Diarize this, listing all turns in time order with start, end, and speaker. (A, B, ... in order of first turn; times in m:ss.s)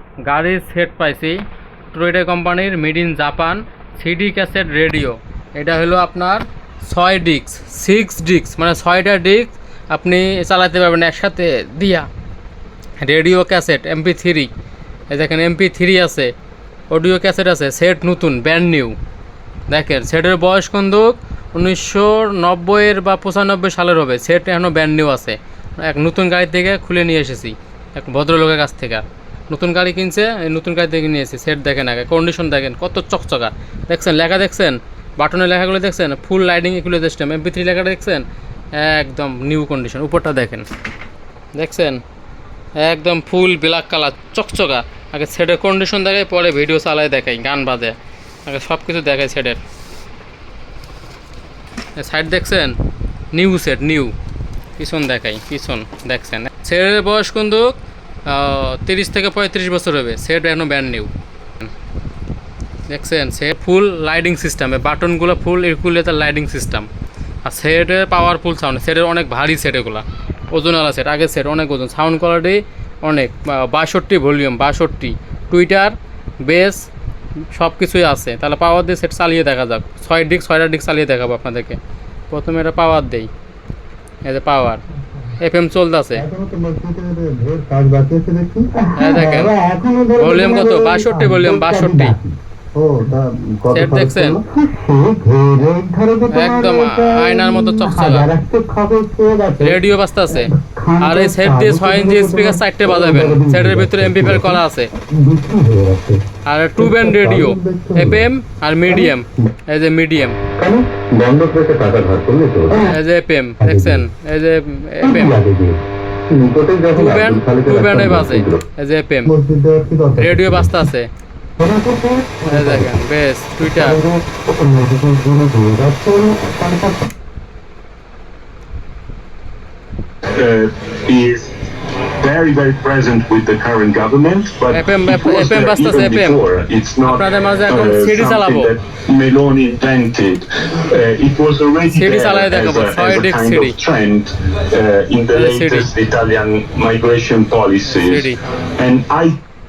0:00.3-0:01.4 A
0:01.9-0:12.1 A
0:13.0-0:14.5 A
0:15.1-0:16.3 A
0:16.9-0:19.0 A
0:19.7-0:38.2 A
0:38.8-0:40.7 A
0:41.6-0:42.0 A
0:42.8-0:47.9 A
0:48.5-0:49.6 A
0:52.0-0:52.7 A
0:53.3-0:54.1 A
0:54.8-0:57.7 A
0:58.3-1:01.1 A
1:02.9-1:06.9 A
1:07.4-1:16.9 A
1:17.5-1:21.8 A
1:22.3-1:23.3 A
1:24.2-1:24.8 A
1:25.4-1:26.2 A
1:26.2-1:46.2 B
1:29.0-1:29.6 A
1:30.2-1:32.2 A
1:33.7-1:34.4 A
1:36.3-1:38.3 A
1:39.6-1:44.9 A
1:46.5-1:50.4 A
1:46.8-1:48.2 B
1:50.6-1:53.0 B
1:52.8-1:55.4 A
1:53.6-1:54.1 B
1:55.0-1:58.6 B
1:56.9-1:59.3 A
1:59.2-2:00.8 B
2:00.2-2:01.1 A
2:01.6-2:03.0 B
2:02.4-2:04.0 A
2:03.7-2:07.1 B
2:10.4-2:11.5 C
2:12.2-2:28.3 C
2:14.7-2:16.4 A
2:17.0-2:18.7 A
2:21.9-2:23.8 A
2:25.3-2:25.9 A
2:27.9-2:28.4 A
2:28.8-2:29.4 C